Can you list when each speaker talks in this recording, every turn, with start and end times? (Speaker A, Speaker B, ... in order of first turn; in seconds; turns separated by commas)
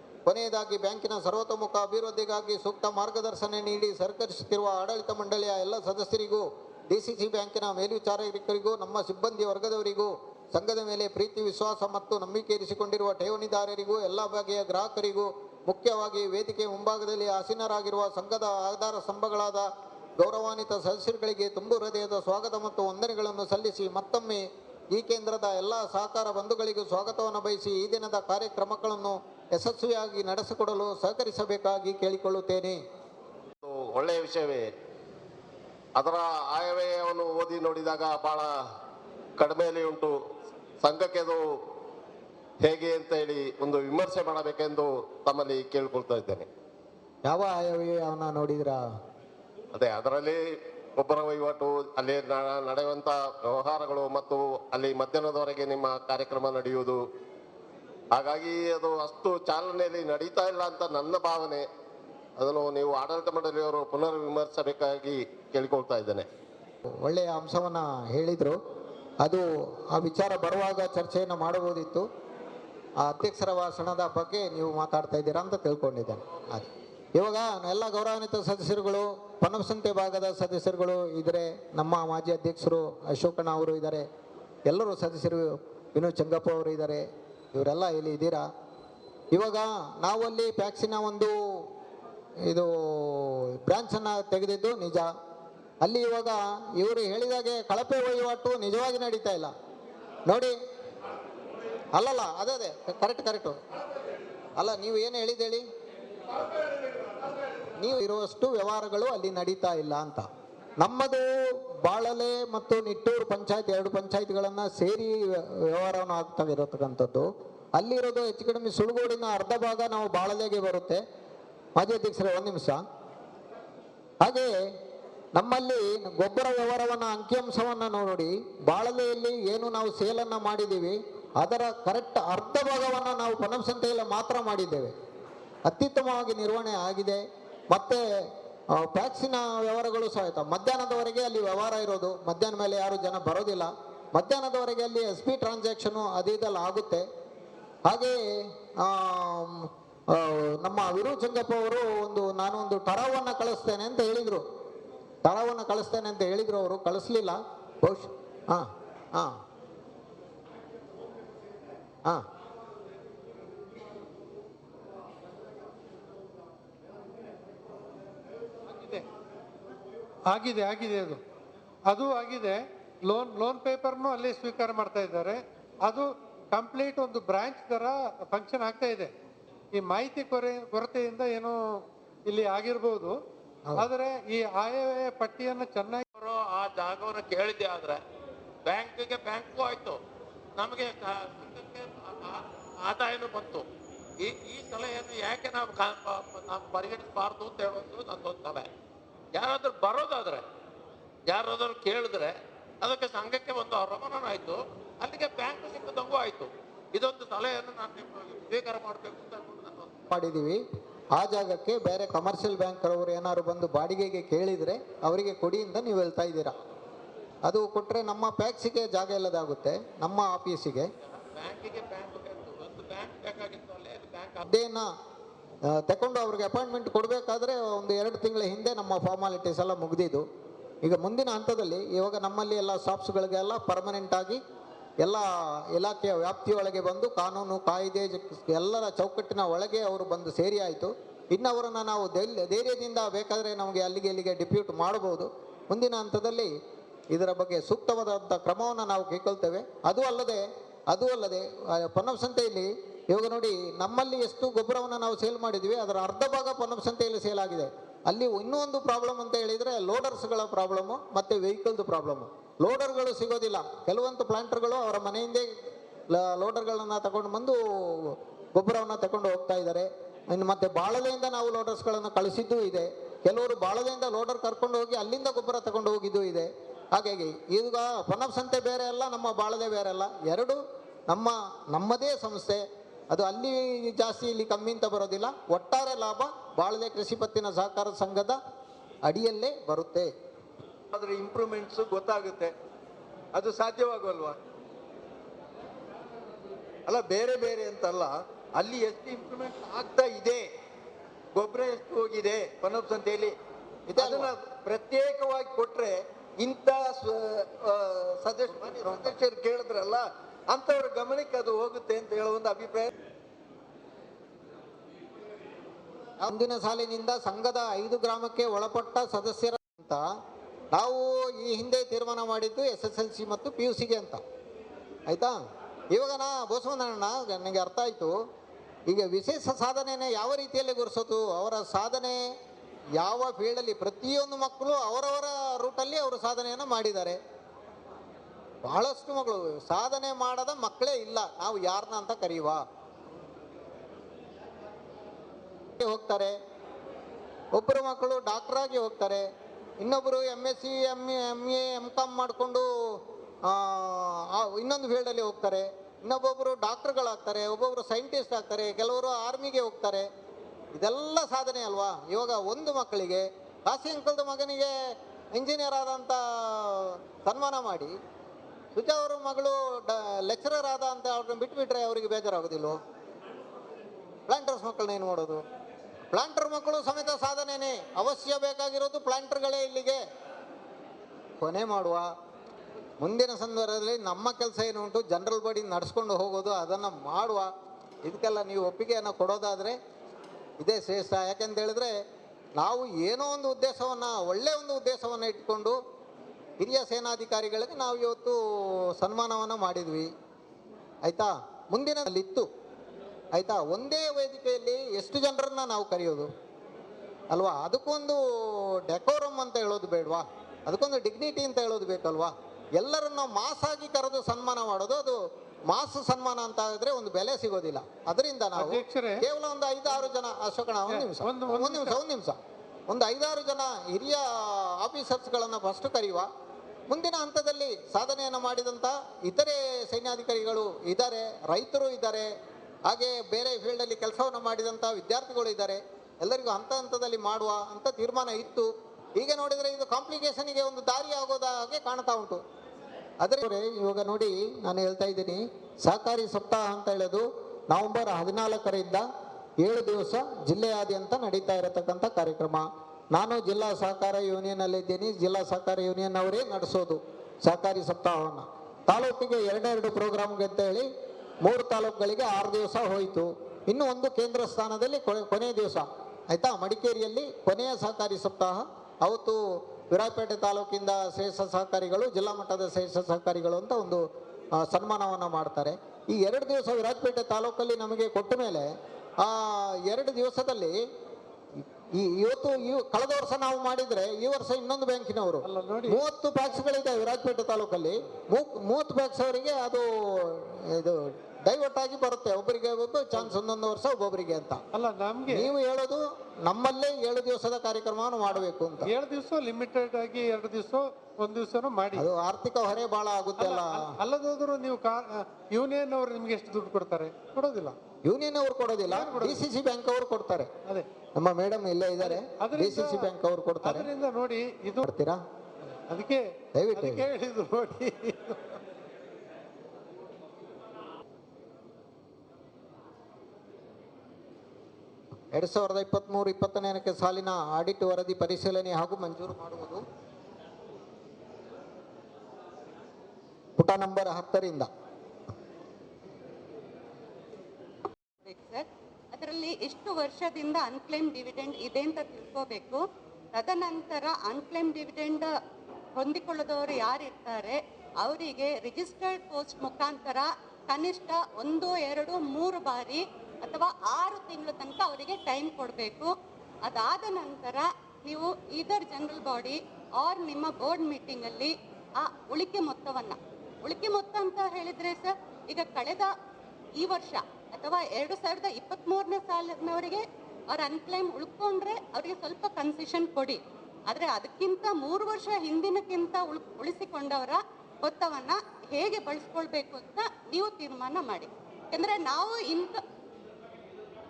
Speaker A: 0.2-32.8, Speaker B: 33.6-34.7, Speaker B: 36.0-38.5, Speaker B: 39.4-40.1, Speaker B: 40.8-41.4, Speaker B: 42.6-46.5, Speaker A: 47.3-48.8, Speaker B: 49.7-50.4, Speaker B: 51.0-57.0, Speaker B: 58.1-61.6, Speaker B: 62.4-66.2, Speaker A: 66.9-68.6, Speaker A: 69.2-72.0, Speaker A: 73.0-84.0, Speaker A: 84.7-88.5, Speaker A: 89.3-91.7, Speaker A: 92.5-95.1, Speaker A: 95.8-99.5, Speaker A: 100.3-100.5, Speaker A: 101.9-103.6, Speaker A: 104.6-105.6, Speaker A: 107.8-110.3, Speaker A: 110.8-121.0, Speaker A: 121.8-122.8, Speaker A: 124.2-124.6, Speaker A: 125.3-134.9, Speaker A: 135.7-138.0, Speaker A: 138.7-147.1, Speaker A: 147.8-154.4, Speaker A: 155.2-159.4, Speaker C: 168.7-169.0, Speaker C: 170.3-171.2, Speaker C: 171.9-179.1, Speaker C: 179.7-181.6, Speaker C: 182.3-183.1, Speaker C: 183.8-186.0, Speaker D: 186.1-188.0, Speaker D: 188.6-190.0, Speaker D: 190.6-193.6, Speaker D: 194.2-198.7, Speaker D: 199.3-200.4, Speaker D: 201.3-209.9, Speaker A: 210.1-210.6, Speaker A: 211.1-216.6, Speaker A: 217.4-220.9, Speaker D: 220.9-224.4, Speaker A: 224.4-224.9, Speaker A: 225.7-230.2, Speaker A: 230.8-234.4, Speaker A: 235.0-246.5, Speaker A: 247.1-265.5, Speaker A: 266.1-288.4, Speaker A: 289.0-290.1, Speaker E: 290.9-292.5, Speaker E: 293.3-294.4, Speaker E: 296.9-300.5, Speaker E: 301.3-303.4, Speaker E: 303.9-312.9, Speaker A: 303.9-304.3, Speaker A: 308.7-309.1, Speaker A: 316.2-320.1, Speaker A: 320.7-324.2, Speaker A: 325.1-325.4, Speaker A: 325.9-328.1, Speaker A: 328.9-332.2, Speaker A: 333.0-337.2, Speaker A: 338.6-342.6, Speaker A: 345.8-346.3, Speaker A: 347.5-349.2, Speaker A: 349.8-360.1, Speaker A: 360.7-364.7, Speaker A: 365.3-367.9, Speaker A: 368.7-372.8, Speaker A: 374.3-375.4, Speaker A: 376.1-380.0, Speaker A: 381.4-382.1, Speaker A: 383.0-387.5, Speaker A: 388.0-389.8, Speaker A: 390.6-391.9, Speaker A: 392.6-395.8, Speaker A: 396.6-400.1, Speaker A: 401.0-402.5, Speaker A: 403.3-406.3, Speaker A: 407.3-422.4, Speaker C: 418.6-419.2, Speaker C: 420.9-422.0, Speaker A: 422.9-426.3, Speaker A: 426.9-432.3, Speaker A: 432.9-442.4, Speaker A: 443.2-449.1, Speaker A: 449.6-460.9, Speaker A: 461.4-478.7, Speaker A: 479.2-480.8, Speaker A: 481.9-494.6, Speaker C: 485.4-486.0, Speaker C: 494.7-495.5, Speaker A: 495.3-498.9, Speaker C: 498.8-502.1, Speaker A: 501.9-503.9, Speaker C: 503.4-507.8, Speaker A: 508.1-510.5, Speaker C: 508.9-509.4, Speaker A: 511.1-513.9, Speaker C: 512.0-513.1, Speaker C: 513.6-514.8, Speaker A: 514.8-515.2, Speaker C: 515.9-516.2, Speaker A: 516.5-517.0, Speaker C: 516.7-518.6, Speaker A: 525.3-529.8, Speaker A: 533.6-534.7, Speaker F: 538.2-542.8, Speaker F: 543.3-545.3, Speaker F: 546.0-556.1, Speaker F: 556.6-566.1, Speaker F: 566.8-582.8